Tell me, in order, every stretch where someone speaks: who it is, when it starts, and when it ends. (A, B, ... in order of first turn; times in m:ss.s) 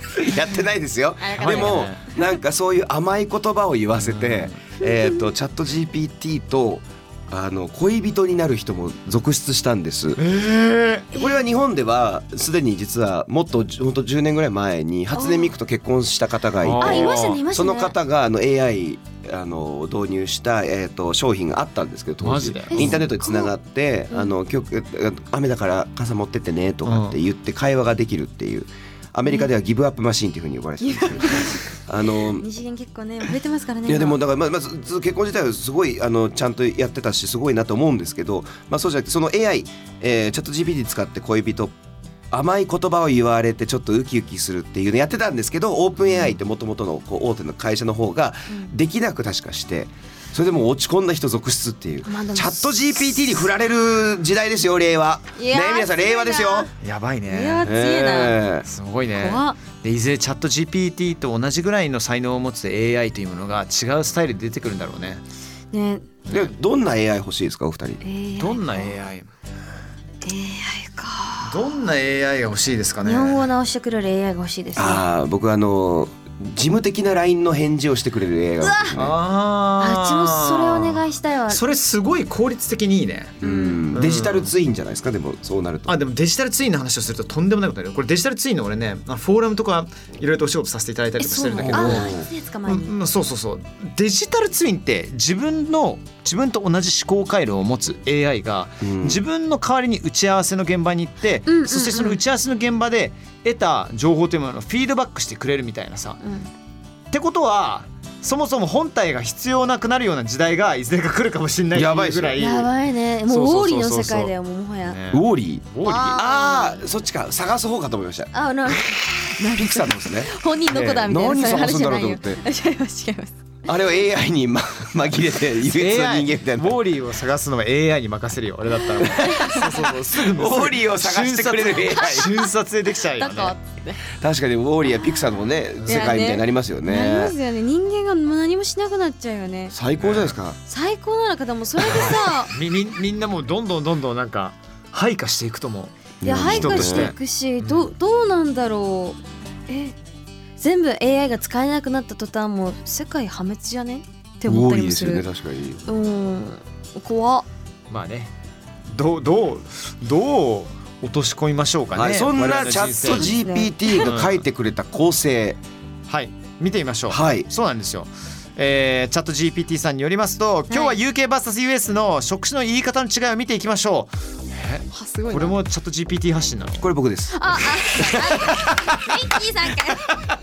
0:00.2-0:10.2 A
0:01.2-0:02.2 B
0:01.4-0:02.0 C
0:04.0-0:04.6 C
0:10.2-0:11.1 C
0:11.1-0:32.4 A
0:15.1-0:15.5 B
0:16.6-0:17.4 C
0:16.8-0:17.9 B
0:22.2-0:23.1 C
0:22.7-0:23.5 B
0:26.8-0:27.2 C
0:30.8-0:34.2 B
0:33.9-0:41.7 A
0:42.3-0:56.7 A
0:52.0-0:53.0 B
0:55.4-0:56.7 B
0:56.8-0:57.7 C
0:57.2-0:58.4 B
0:57.6-0:58.6 A
0:58.6-1:05.2 C
0:59.1-0:59.6 B
1:05.7-1:06.2 B
1:06.3-1:08.0 A
1:08.0-1:09.0 B
1:08.4-1:09.3 C
1:10.2-1:11.8 B
1:11.4-1:13.4 C
1:13.0-1:15.0 B
1:14.8-1:19.1 A
1:18.6-1:19.0 B
1:18.9-1:23.4 C
1:19.8-1:21.6 B
1:23.4-1:25.9 A
1:23.4-1:23.8 B
1:23.9-1:24.5 C
1:25.9-1:32.1 C
1:31.2-1:32.9 B
1:31.6-1:32.3 A
1:32.6-1:46.2 C
1:38.8-1:39.2 A
1:41.5-1:42.2 B
1:46.2-1:46.5 B
1:47.1-1:52.7 C
1:51.7-1:52.4 A
1:52.4-1:55.0 B
1:53.3-1:54.3 C
1:54.8-1:56.2 C
1:55.1-1:58.3 A
1:55.8-1:56.9 B
1:58.3-2:03.3 B
1:59.5-2:02.4 A
2:03.6-2:06.8 A
2:05.6-2:13.5 C
2:09.0-2:09.9 B
2:09.1-2:12.3 A
2:12.0-2:12.4 B
2:13.0-2:14.0 B
2:14.1-2:17.3 A
2:15.8-2:19.7 B
2:19.7-2:20.6 A
2:20.0-2:20.3 C
2:20.6-2:22.5 B
2:21.8-2:27.9 C
2:26.2-2:27.1 A
2:26.2-2:30.0 B
2:30.6-2:35.2 B
2:34.4-2:35.8 A
2:35.9-2:37.5 B
2:37.9-2:38.3 C
2:38.9-2:43.4 C
2:41.9-2:45.6 A
2:43.0-2:44.1 B
2:44.0-2:44.4 C
2:46.1-2:56.9 C
2:47.1-2:47.5 A
2:50.7-2:51.0 B
2:54.9-2:55.6 B
2:56.8-2:58.7 A
2:57.3-3:00.1 B
2:58.2-2:59.0 C